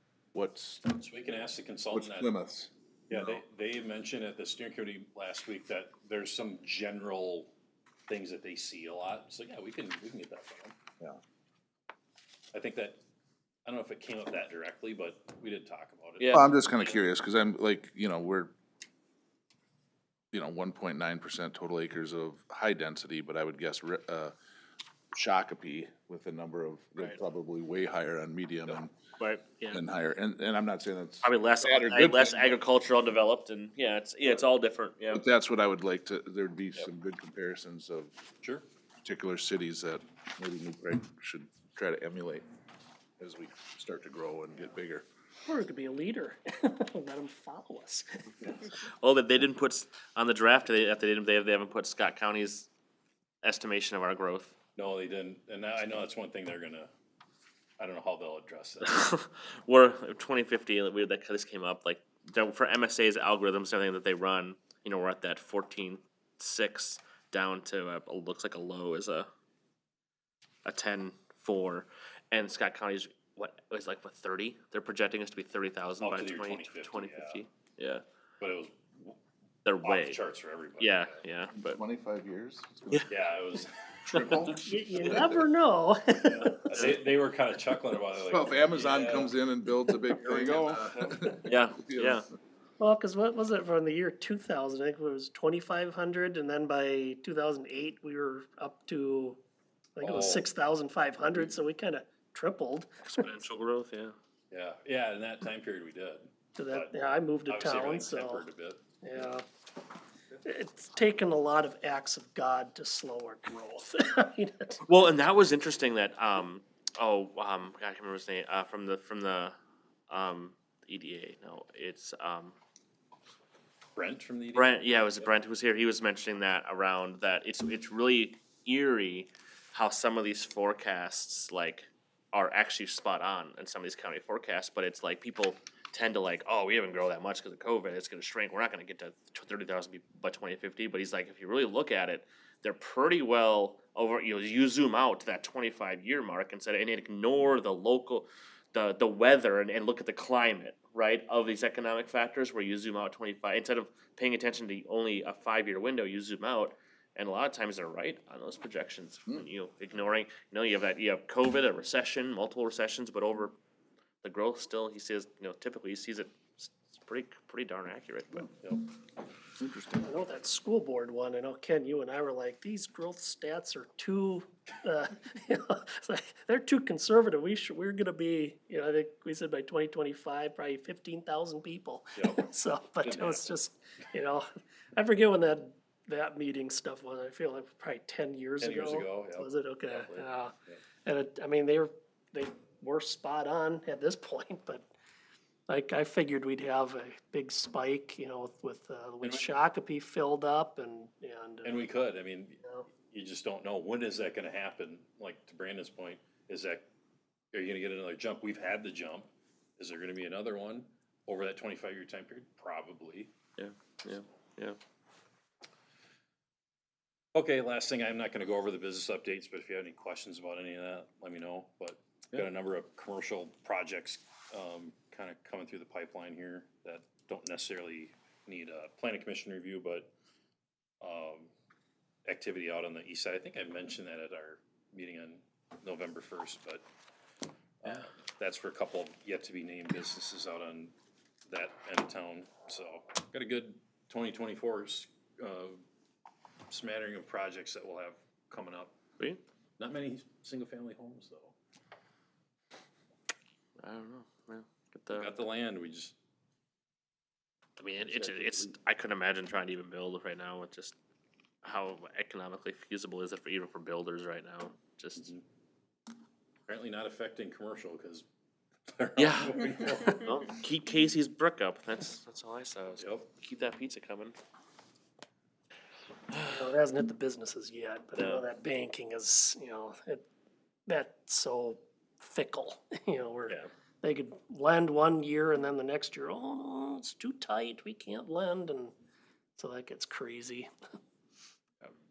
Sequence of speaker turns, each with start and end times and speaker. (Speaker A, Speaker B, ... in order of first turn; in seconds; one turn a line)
Speaker A: 0.3-0.8
Speaker B: 0.9-2.3
Speaker A: 1.9-3.2
Speaker B: 3.1-7.5
Speaker B: 8.1-10.8
Speaker B: 12.5-13.0
Speaker B: 13.7-16.5
Speaker C: 16.2-16.9
Speaker A: 16.3-18.5
Speaker A: 20.3-24.3
Speaker A: 25.1-28.9
Speaker C: 28.7-29.8
Speaker A: 29.7-32.6
Speaker C: 31.2-35.2
Speaker A: 35.1-38.1
Speaker A: 39.0-42.4
Speaker A: 43.2-45.0
Speaker D: 45.5-48.5
Speaker C: 48.8-52.7
Speaker C: 53.4-54.5
Speaker B: 54.8-56.9
Speaker B: 57.8-59.1
Speaker C: 58.8-69.3
Speaker C: 70.7-78.0
Speaker B: 76.0-77.4
Speaker B: 78.4-79.2
Speaker C: 79.6-80.2
Speaker B: 79.8-81.2
Speaker C: 80.8-81.8
Speaker A: 81.5-83.1
Speaker B: 83.1-83.7
Speaker A: 84.1-85.3
Speaker C: 84.1-84.5
Speaker D: 84.5-86.8
Speaker B: 86.2-89.3
Speaker A: 88.2-92.2
Speaker B: 90.1-91.3
Speaker C: 91.4-92.3
Speaker D: 92.8-99.4
Speaker D: 100.0-103.3
Speaker B: 100.0-100.5
Speaker C: 103.0-104.1
Speaker B: 104.5-108.8
Speaker D: 106.5-108.5
Speaker D: 109.0-109.4
Speaker D: 110.4-114.8
Speaker C: 114.8-119.5
Speaker C: 120.1-122.5
Speaker B: 124.0-125.3
Speaker C: 124.5-163.6
Speaker C: 164.2-168.5
Speaker A: 169.6-170.2
Speaker D: 170.0-190.5
Speaker B: 182.1-182.4
Speaker B: 183.0-183.5
Speaker B: 188.6-190.8
Speaker D: 191.0-194.9
Speaker D: 195.7-201.8
Speaker B: 201.6-202.6
Speaker B: 203.1-206.8
Speaker B: 207.5-213.3
Speaker C: 213.6-214.8
Speaker B: 217.3-230.1
Speaker B: 231.0-231.5
Speaker B: 232.2-236.8
Speaker B: 237.8-240.9
Speaker B: 241.5-245.8
Speaker B: 246.7-248.9
Speaker B: 249.8-251.5
Speaker C: 253.8-255.3
Speaker B: 255.1-256.1
Speaker C: 257.8-260.9
Speaker B: 258.0-258.7
Speaker C: 261.6-265.3
Speaker B: 265.2-265.4
Speaker B: 266.7-268.2
Speaker B: 268.9-270.3
Speaker C: 269.2-274.4
Speaker B: 273.0-273.3
Speaker C: 276.3-276.7
Speaker D: 276.4-280.2
Speaker C: 278.1-278.4
Speaker D: 280.9-288.9
Speaker D: 289.6-290.7